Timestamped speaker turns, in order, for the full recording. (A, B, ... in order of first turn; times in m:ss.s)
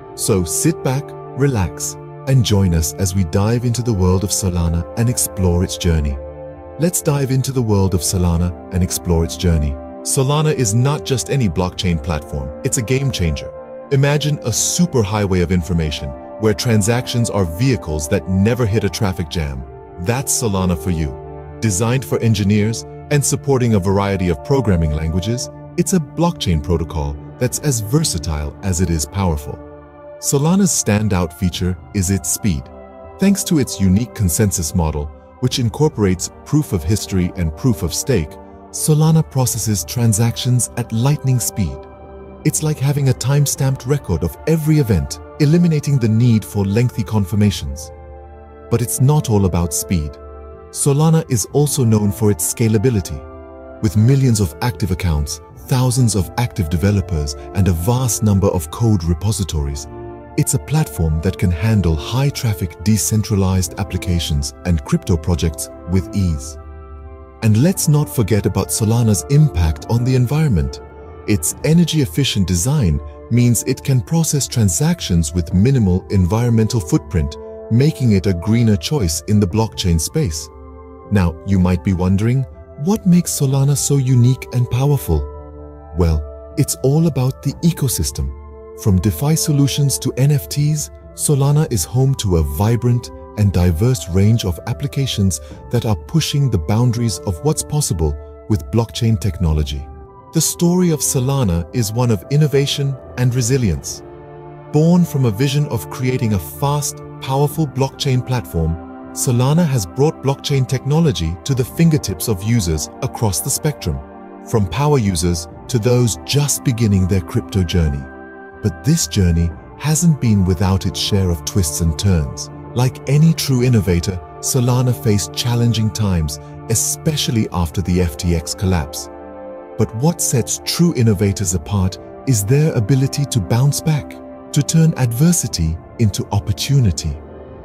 0:00.2-0:06.2 A
0:06.8-0:29.6 A
0:30.2-0:41.9 A
0:42.4-0:47.9 A
0:48.7-0:50.2 A
0:50.7-0:53.3 A
0:53.8-1:06.6 A
1:07.4-1:20.5 A
1:21.1-1:25.3 A
1:25.9-1:44.0 A
1:44.7-1:58.1 A
1:58.6-2:09.1 A
2:09.8-2:17.2 A